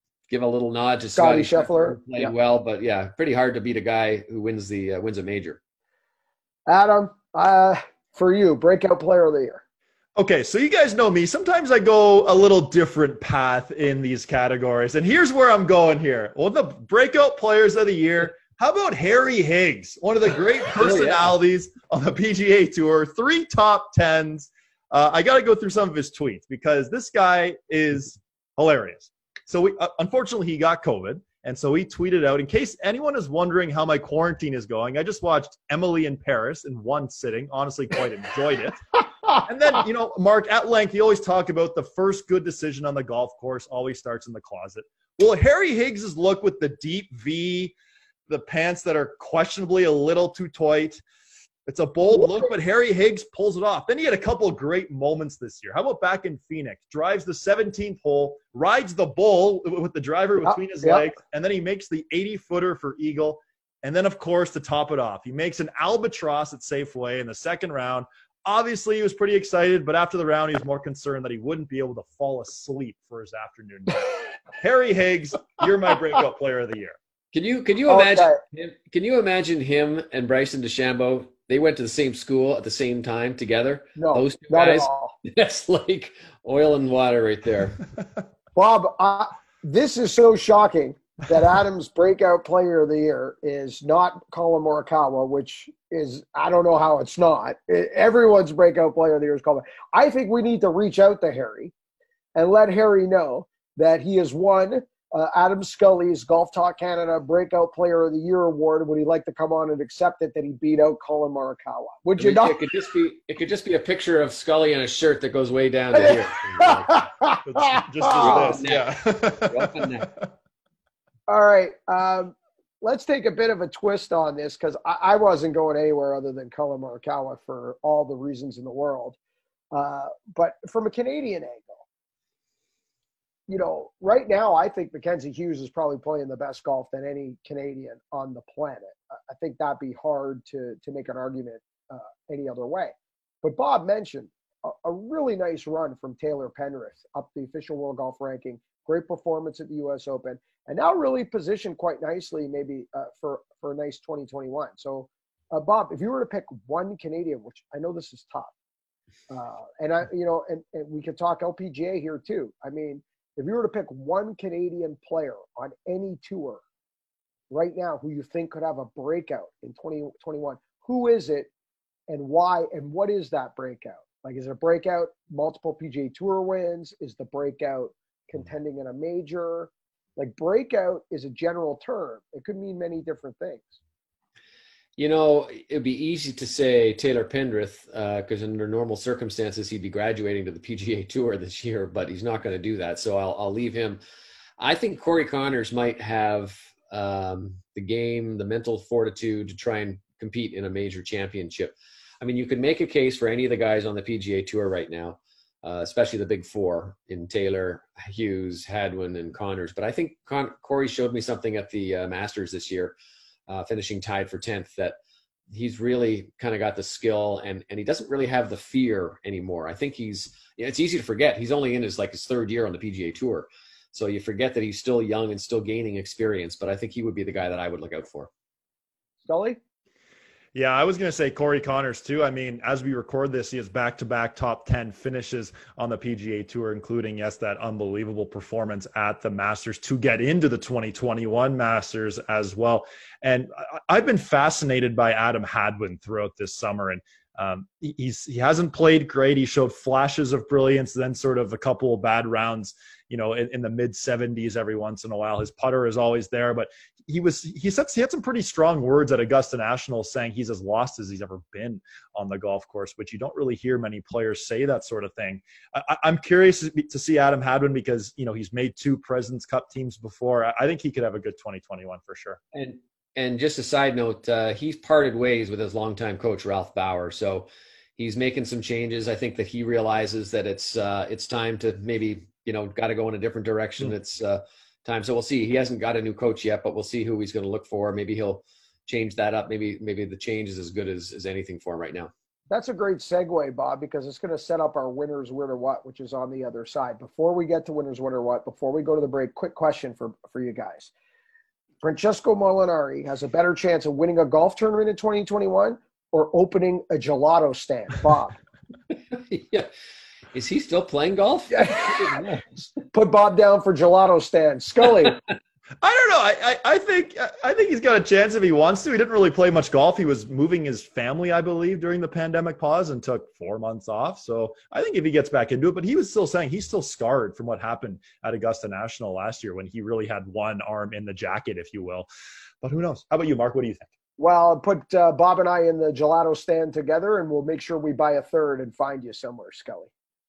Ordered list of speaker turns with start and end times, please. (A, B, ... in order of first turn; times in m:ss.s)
0:00.3-0:05.6 A
0:01.1-0:02.3 B
0:06.7-0:09.6 B
0:10.2-0:47.7 C
0:20.6-0:21.3 A
0:48.3-0:51.0 C
0:51.7-1:17.0 C
0:52.1-0:52.5 B
1:00.4-1:01.1 B
1:17.3-1:27.8 A
1:17.9-1:18.4 B
1:24.0-1:25.1 B
1:28.6-1:41.7 B
1:42.3-1:52.6 B
1:52.2-1:57.0 A
1:55.9-1:58.6 B
1:57.4-2:00.3 C
1:58.2-2:00.1 A
2:01.3-2:09.2 B
2:09.7-2:11.8 B
2:13.5-2:38.5 B
2:39.3-2:46.6 B
2:47.5-2:51.5 B
2:52.1-3:03.8 B
3:05.0-3:14.0 A
3:14.6-3:32.9 A
3:33.5-3:35.0 A
3:35.5-3:48.3 A
3:49.2-3:49.6 B
3:50.5-4:32.4 C
4:32.5-4:52.1 A
4:52.5-5:00.9 B
5:01.8-5:08.3 B
5:09.1-5:09.7 A
5:10.3-5:12.4 A
5:11.5-5:15.2 B
5:15.8-5:32.0 C
5:32.6-5:33.9 C
5:34.2-5:39.9 B